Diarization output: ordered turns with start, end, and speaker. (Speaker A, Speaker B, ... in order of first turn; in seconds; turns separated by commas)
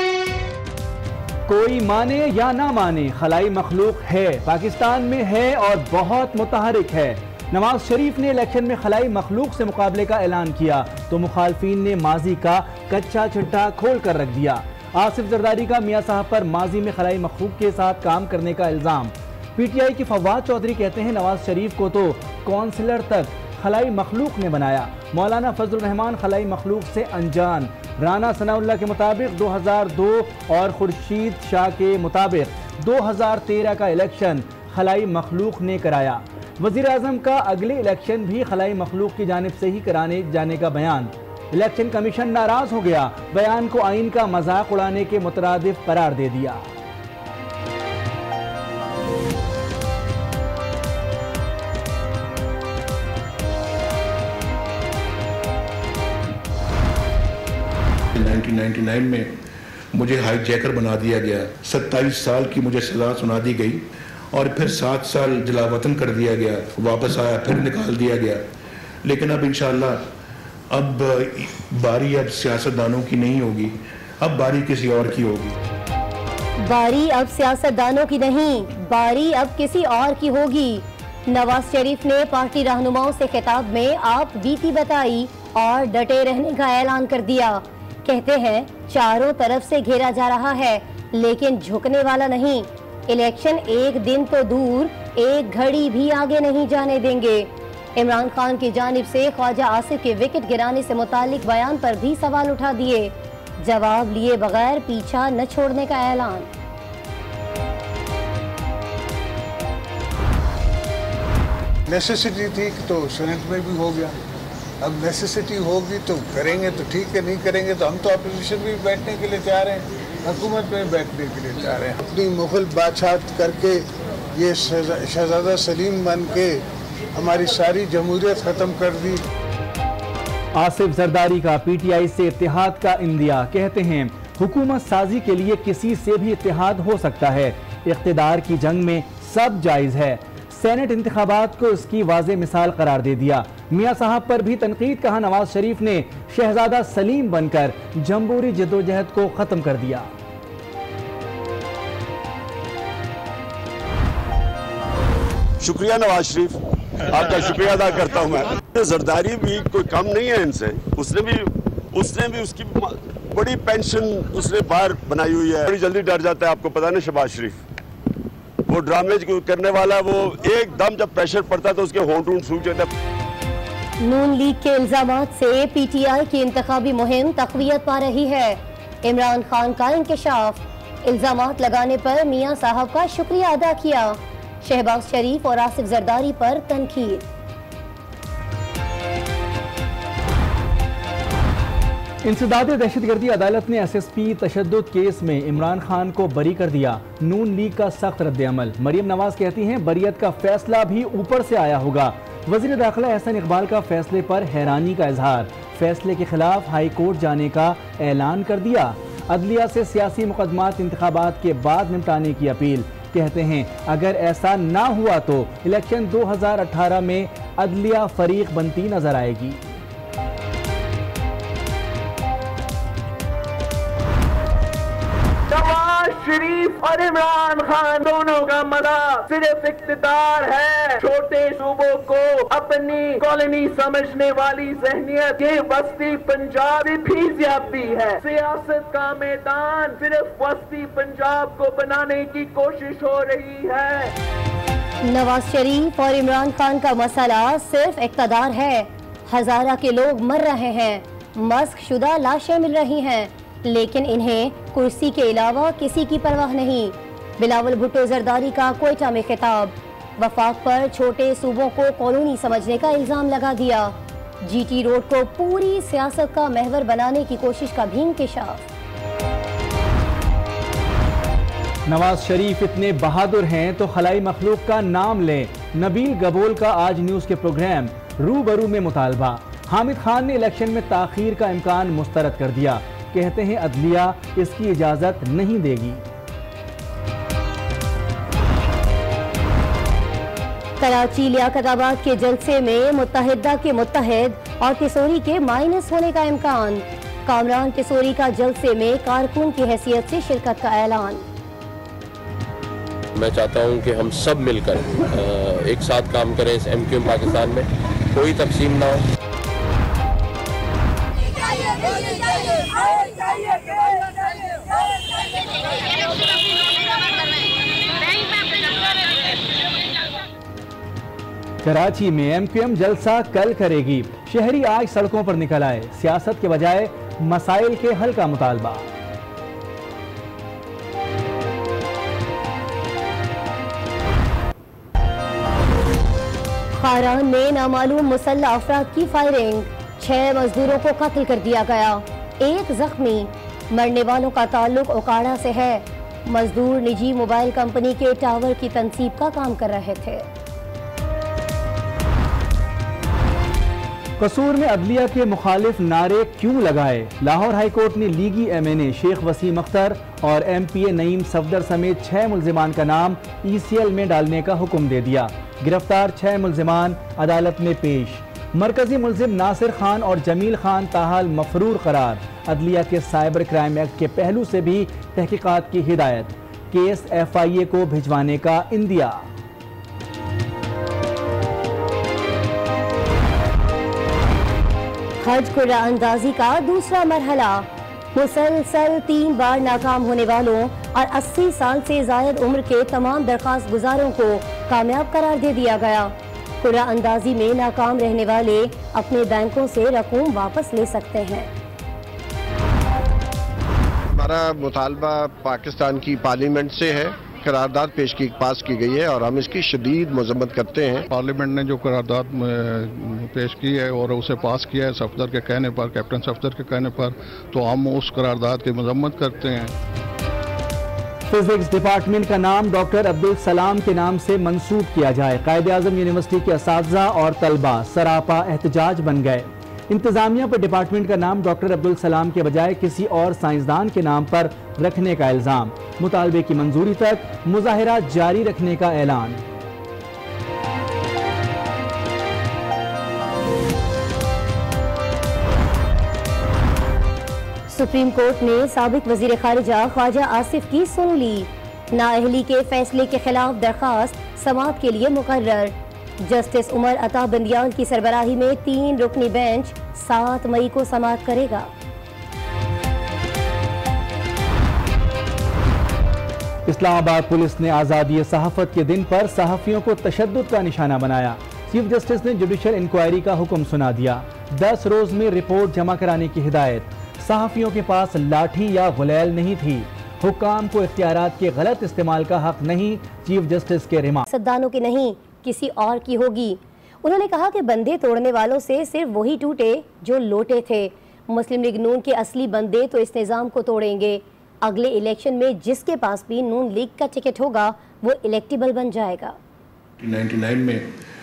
Speaker A: 1.5-46.6, Speaker B: 58.1-59.3, Speaker B: 59.9-68.4, Speaker B: 69.0-70.0, Speaker B: 70.7-75.6, Speaker C: 76.6-106.5, Speaker D: 111.9-114.2, Speaker D: 114.8-123.8, Speaker D: 124.4-126.6, Speaker D: 127.2-129.2, Speaker A: 130.6-150.1, Speaker E: 155.6-161.4, Speaker E: 161.9-167.6, Speaker E: 168.7-172.9, Speaker C: 174.0-187.3, Speaker A: 192.2-219.7, Speaker F: 225.5-244.1, Speaker C: 245.1-268.6, Speaker A: 271.9-286.0, Speaker C: 290.8-301.2, Speaker G: 303.1-309.0, Speaker A: 321.6-328.9, Speaker C: 336.8-350.3, Speaker A: 354.2-379.2, Speaker C: 385.2-401.5, Speaker H: 404.1-411.0, Speaker I: 411.1-419.7, Speaker A: 421.3-439.4, Speaker C: 447.7-461.7, Speaker A: 466.7-484.3, Speaker C: 484.3-499.4, Speaker B: 500.0-500.9